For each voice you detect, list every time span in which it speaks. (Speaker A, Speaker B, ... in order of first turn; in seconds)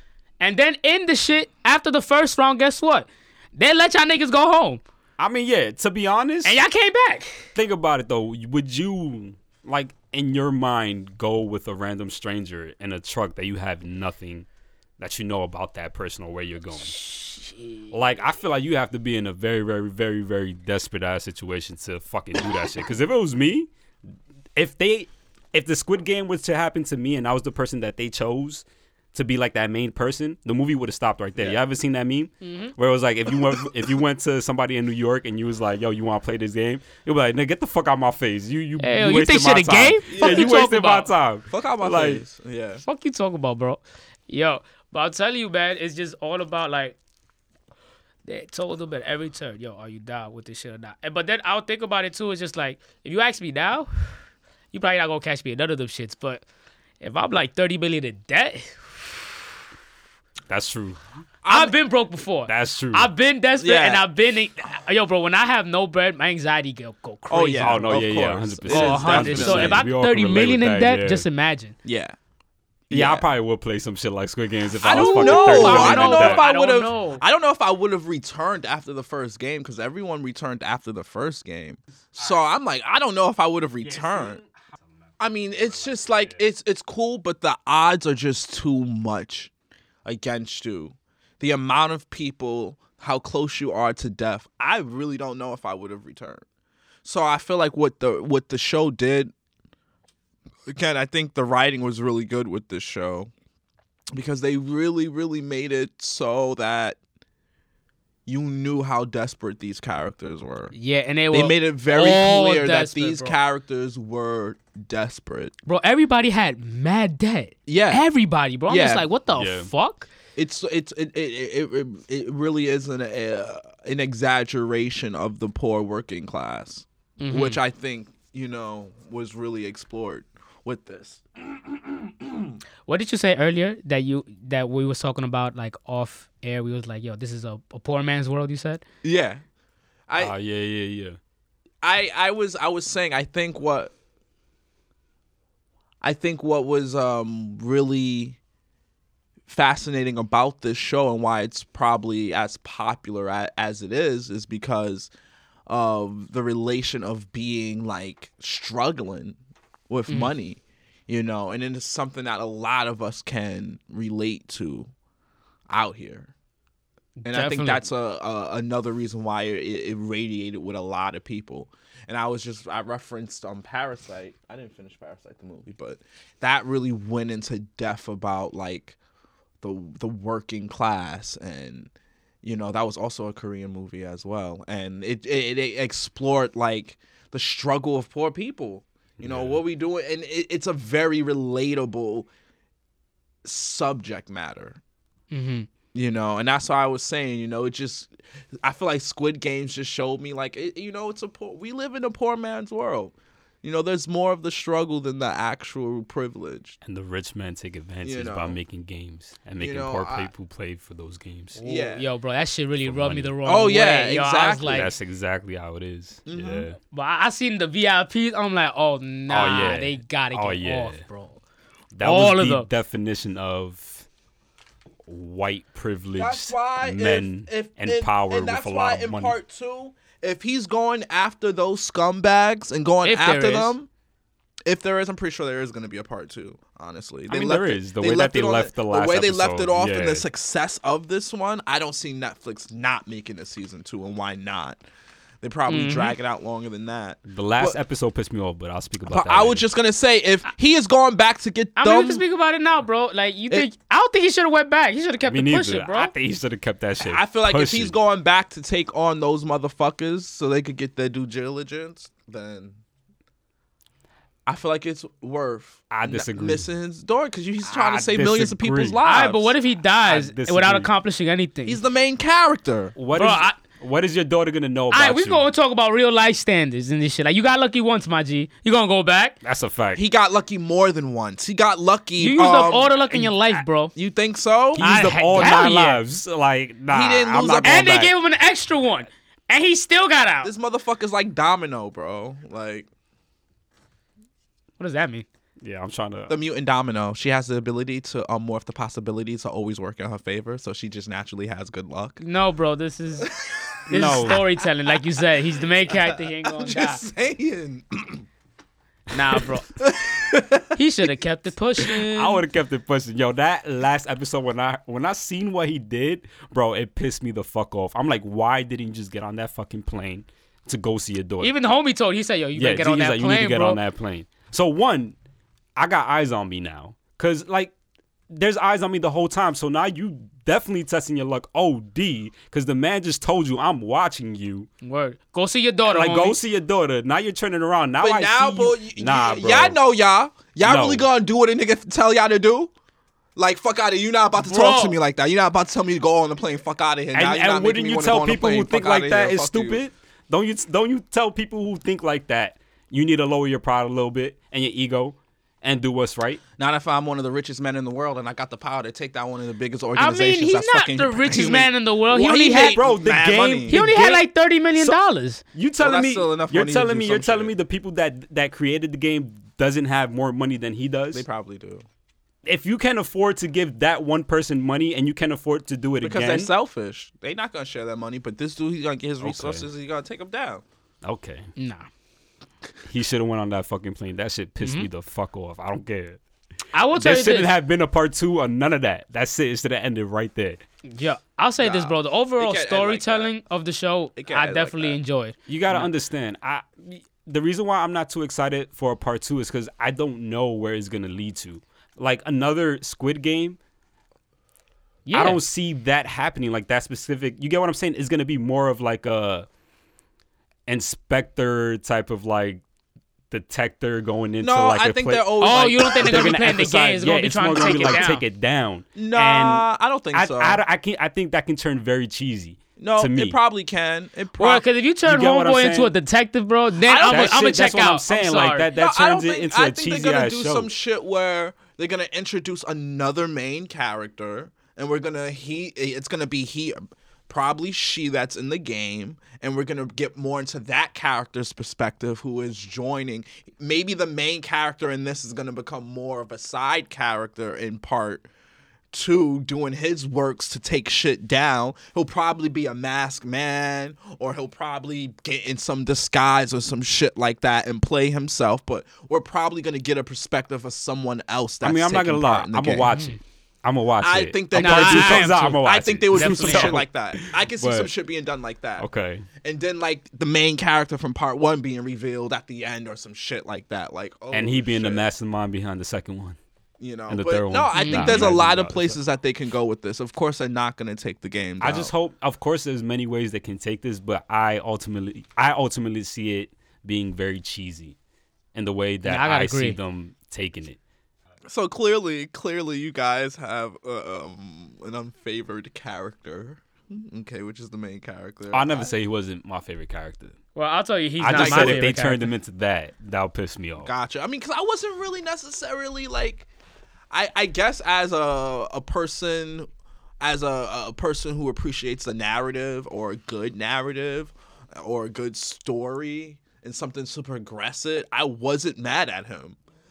Speaker A: 0.4-4.8, 6.4-7.5, 16.8-17.9, 32.4-32.7, 38.8-41.1, 42.8-47.0, 48.2-53.9, 54.7-56.4, 57.0-59.3, 61.5-68.0, 68.7-71.8, 74.9-77.2, 110.7-113.3, 115.7-120.1, 127.2-127.6, 132.9-138.8, 167.2-167.9, 195.3-195.7, 211.6-214.9, 216.9-221.4, 222.0-222.7, 233.0-233.7, 245.7-246.1, 251.8-256.1, 269.0-271.8, 273.1-273.6, 274.9-279.3, 282.2-283.9, 284.8-286.0, 287.6-290.5, 294.8-295.2, 302.2-303.3, 303.9-307.0, 309.1-309.7, 310.8-312.4, 321.4-323.8, 334.8-336.4, 344.4-344.9, 359.9-362.8, 363.7-365.4, 381.6-381.8, 384.6-384.9, 386.7-387.5, 390.9-395.9, 405.1-405.4, 415.4-418.2, 424.4-428.7, 462.9-463.1, 464.5-465.6, 466.1-466.8, 477.7-478.2, 489.0-489.8, 500.6-502.3
Speaker B: 5.2-6.6, 7.5-14.4, 15.0-17.0, 17.9-23.7, 24.6-42.2, 60.5-61.0, 62.5-63.1, 67.6-71.2, 72.9-76.5, 83.8-84.4, 85.9-86.3, 119.3-119.7, 140.2-141.2, 189.2-189.6, 206.8-211.6, 212.8-213.3, 214.6-216.8, 219.3-221.0, 221.9-224.1, 225.1-229.3, 237.3-240.2, 247.3-249.7, 255.2-257.9, 265.9-266.7, 267.6-269.0, 270.0-270.9, 272.9-275.4, 279.4-280.0, 284.7-288.1, 295.6-296.4, 303.9-304.4, 312.1-321.5, 322.5-325.1, 325.8-327.7, 328.3-334.7, 335.9-339.8, 340.6-341.1, 347.1-356.4, 362.5-365.0, 365.5-371.2, 372.4-376.5, 379.2-379.7, 381.0-381.5, 382.8-386.2, 386.9-390.6, 395.5-403.6, 405.1-409.4, 410.7-412.6, 413.3-423.4, 425.0-425.9, 427.0-430.7, 461.6-467.9, 468.8-469.3, 474.3-476.4, 477.1-479.0, 481.6-487.9, 488.5-490.8, 498.5-500.4, 501.2-503.9
Speaker C: 40.1-40.7, 41.5-42.8, 61.4-61.7, 63.6-64.0, 67.3-69.8, 71.8-72.2, 72.9-73.3, 74.8-84.4, 85.2-89.5, 90.0-96.4, 97.0-99.3, 100.7-103.3, 104.1-107.0, 108.2-110.7, 111.3-115.5, 117.7-118.0, 118.7-119.0, 120.3-132.5, 139.0-139.4, 140.1-140.3, 141.8-143.9, 146.0-148.4, 149.5-155.1, 155.7-159.4, 159.9-164.9, 165.7-166.3, 167.2-178.9, 179.6-181.9, 182.4-192.3, 193.4-194.8, 195.9-206.8, 208.0-208.6, 209.6-210.3, 211.6-212.1, 213.4-214.8, 216.3-216.7, 226.2-233.9, 234.6-244.8, 245.4-247.8, 249.1-252.2, 257.0-262.8, 264.4-269.5, 271.6-272.9, 279.9-283.0, 283.9-284.9, 286.9-288.1, 290.4-292.9, 296.3-302.2, 303.2-304.9, 305.9-308.2, 309.4-310.8, 338.0-342.7, 343.4-349.8, 356.6-363.8, 365.8-367.5, 371.1-371.8, 376.0-380.6, 391.6-393.3, 394.2-395.0, 414.4-416.6, 417.5-418.2, 418.9-420.6, 422.8-424.6, 426.8-427.6, 428.7-448.3, 448.9-462.9, 464.0-468.9, 469.4-475.0, 476.8-481.9, 491.5-498.9, 501.3-501.9, 503.8-506.4, 507.1-509.7, 510.2-519.6